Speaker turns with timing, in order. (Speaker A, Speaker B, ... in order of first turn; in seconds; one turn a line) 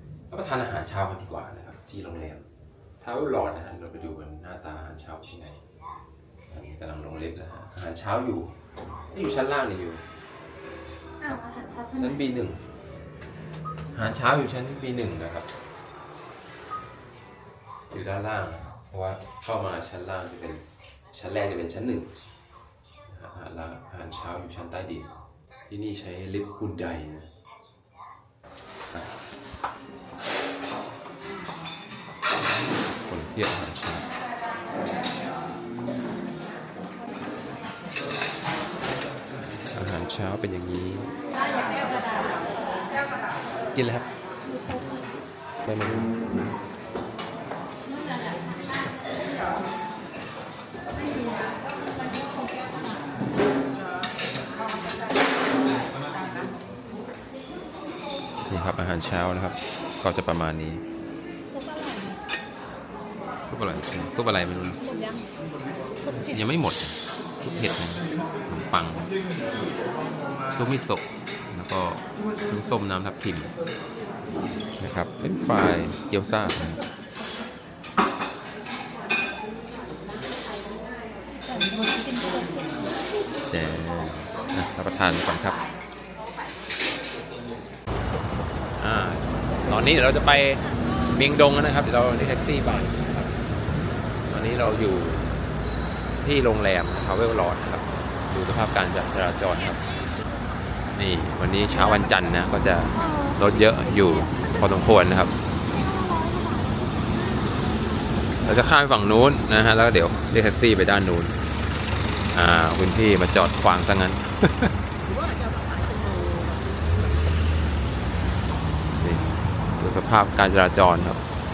Speaker A: 0.3-2.4
Speaker A: 3.0-5.6
Speaker A: 6.5-8.5
Speaker A: 9.1-10.0
Speaker B: 11.2-12.3
Speaker A: 11.9-12.6
Speaker A: 13.9-15.5
Speaker A: 17.9-22.1
Speaker A: 23.1-25.1
Speaker A: 25.7-27.3
Speaker A: 32.4-34.1
Speaker A: 39.7-41.1
Speaker A: 43.7-44.0
Speaker A: 45.6-46.5
Speaker A: 58.5-60.8
Speaker B: 61.5-62.2
Speaker A: 63.5-64.8
Speaker B: 64.8-65.3
Speaker B: 66.0-66.4
Speaker A: 66.3-69.1
Speaker A: 70.5-73.5
Speaker A: 74.8-76.8
Speaker B: 81.4-83.0
Speaker A: 83.5-85.6
Speaker A: 88.8-93.3
Speaker A: 94.3-95.3
Speaker A: 96.2-99.8
Speaker A: 100.9-105.3
Speaker B: 102.9-103.4
Speaker B: 104.0-104.5
Speaker B: 105.7-107.7
Speaker A: 108.4-111.3
Speaker A: 112.3-114.7
Speaker A: 119.0-119.2
Speaker A: 119.8-121.2